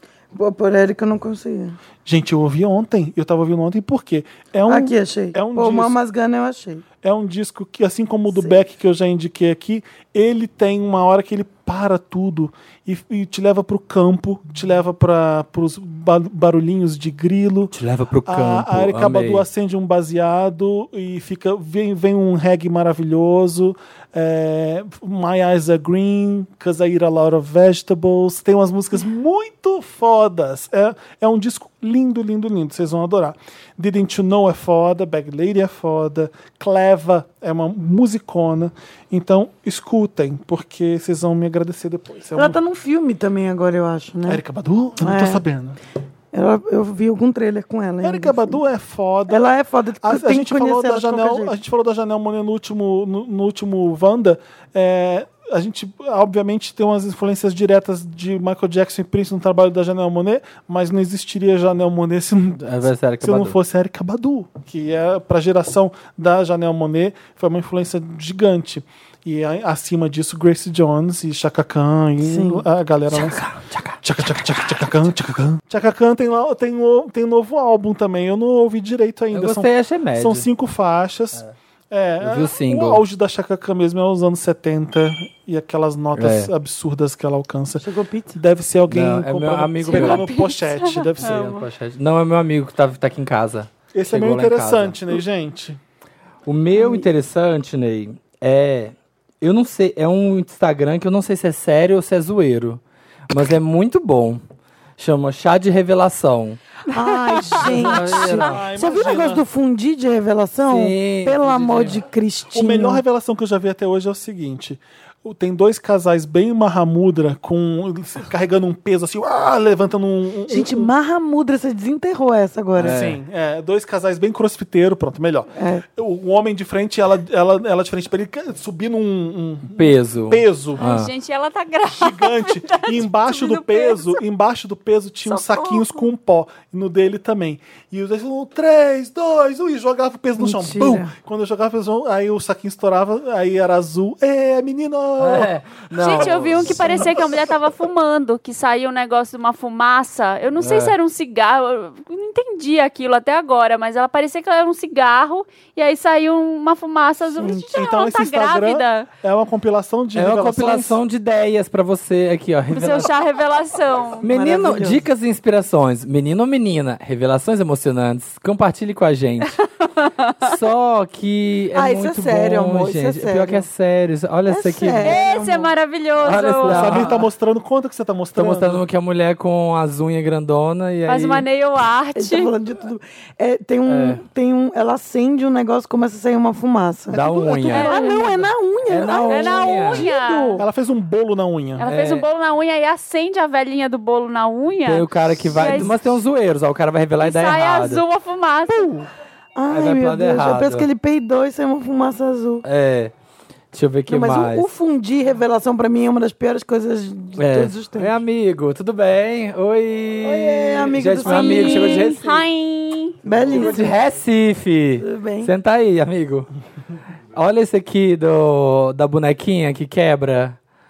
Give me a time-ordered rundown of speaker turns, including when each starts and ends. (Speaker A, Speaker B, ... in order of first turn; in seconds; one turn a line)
Speaker A: 0.3-1.8
Speaker B: 2.0-6.0
Speaker A: 4.7-6.8
Speaker B: 7.0-17.7
Speaker A: 8.3-8.6
Speaker C: 17.7-19.4
Speaker B: 18.2-42.6
Speaker A: 42.3-44.4
Speaker B: 44.3-45.8
Speaker A: 45.0-45.4
Speaker A: 46.3-48.6
Speaker B: 48.0-49.5
Speaker A: 49.3-51.5
Speaker B: 50.0-73.4
Speaker C: 62.6-63.5
Speaker A: 72.2-72.6
Speaker C: 73.1-74.0
Speaker B: 74.0-91.5
Speaker C: 79.3-80.5
Speaker C: 82.2-83.0
Speaker C: 86.2-86.5
Speaker A: 87.8-88.4
Speaker C: 88.9-90.3
Speaker D: 89.9-91.7
Speaker C: 91.2-95.0
Speaker B: 93.9-95.8
Speaker C: 96.5-104.4
Speaker A: 96.7-97.1
Speaker C: 105.0-106.6
Speaker A: 106.9-113.0
Speaker C: 107.5-108.6
Speaker B: 108.2-109.4
Speaker C: 110.7-112.0
Speaker B: 112.5-120.9
Speaker A: 120.5-123.0
Speaker C: 122.8-123.2
Speaker B: 122.8-130.8
Speaker A: 125.5-125.8
Speaker C: 129.8-131.1
Speaker D: 130.8-134.2
Speaker B: 131.9-145.5
Speaker D: 135.3-136.0
Speaker A: 140.4-141.1
Speaker C: 145.2-147.0
Speaker D: 145.9-159.1
Speaker B: 146.0-147.0
Speaker C: 150.6-150.9
Speaker A: 157.4-157.6
Speaker B: 157.4-161.0
Speaker C: 160.1-163.1
Speaker D: 162.7-164.2
Speaker C: 164.2-169.6
Speaker A: 164.2-165.0
Speaker D: 169.6-170.5
Speaker C: 170.4-175.2
Speaker A: 171.7-173.7
Speaker A: 174.5-175.7
Speaker D: 175.0-177.1
Speaker C: 176.2-177.2
Speaker B: 176.6-178.8
Speaker C: 178.4-181.4
Speaker D: 181.1-182.5
Speaker A: 182.2-190.6
Speaker C: 183.9-184.2
Speaker C: 187.1-187.9
Speaker B: 187.1-188.0
Speaker D: 187.7-188.2
Speaker C: 188.9-190.1
Speaker D: 189.3-190.6
Speaker B: 190.6-191.9
Speaker D: 191.8-196.0
Speaker C: 191.8-192.2
Speaker C: 194.9-198.0
Speaker D: 197.2-198.9
Speaker A: 199.6-202.6
Speaker C: 199.7-200.9
Speaker C: 202.6-203.1
Speaker C: 203.7-204.7
Speaker A: 204.1-208.2
Speaker C: 207.4-212.4
Speaker A: 210.2-212.2
Speaker D: 211.2-213.2
Speaker A: 213.2-213.9
Speaker C: 213.5-216.5
Speaker A: 215.0-215.5
Speaker C: 217.3-220.6